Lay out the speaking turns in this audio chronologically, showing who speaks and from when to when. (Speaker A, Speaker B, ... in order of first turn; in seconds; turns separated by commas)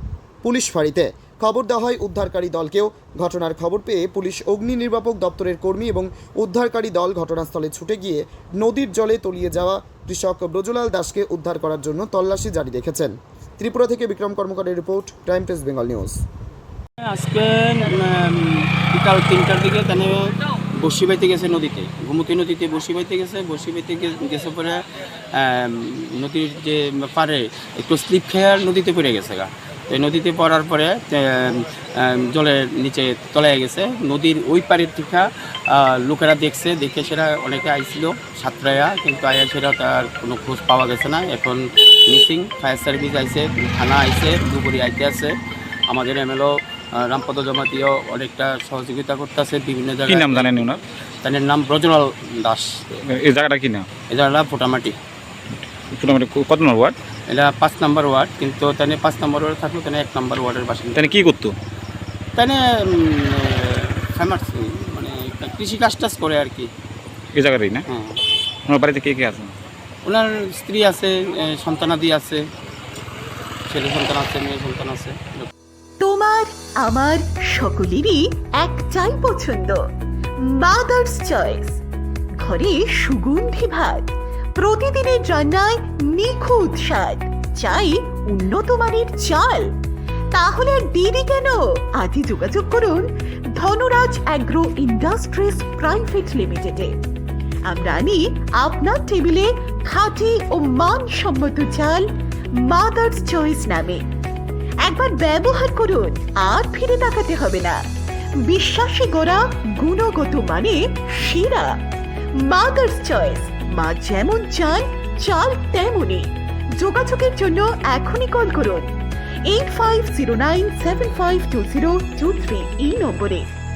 Speaker A: 0.4-16.2, Speaker B: 17.0-24.8, Speaker B: 25.3-45.4, Speaker B: 45.9-52.8, Speaker C: 50.1-50.8, Speaker C: 53.0-53.9, Speaker B: 54.1-55.0, Speaker C: 55.9-57.0, Speaker B: 57.3-61.2, Speaker C: 61.0-61.5, Speaker B: 62.4-66.7, Speaker C: 67.3-67.8, Speaker B: 67.9-68.2, Speaker C: 68.7-69.5, Speaker B: 70.0-72.4, Speaker B: 73.7-75.5, Speaker D: 76.0-79.8, Speaker D: 80.4-81.8, Speaker D: 82.4-89.7, Speaker D: 90.3-96.9, Speaker D: 97.6-104.1, Speaker D: 104.8-107.8, Speaker D: 108.4-111.7, Speaker D: 112.4-118.9, Speaker D: 119.5-123.5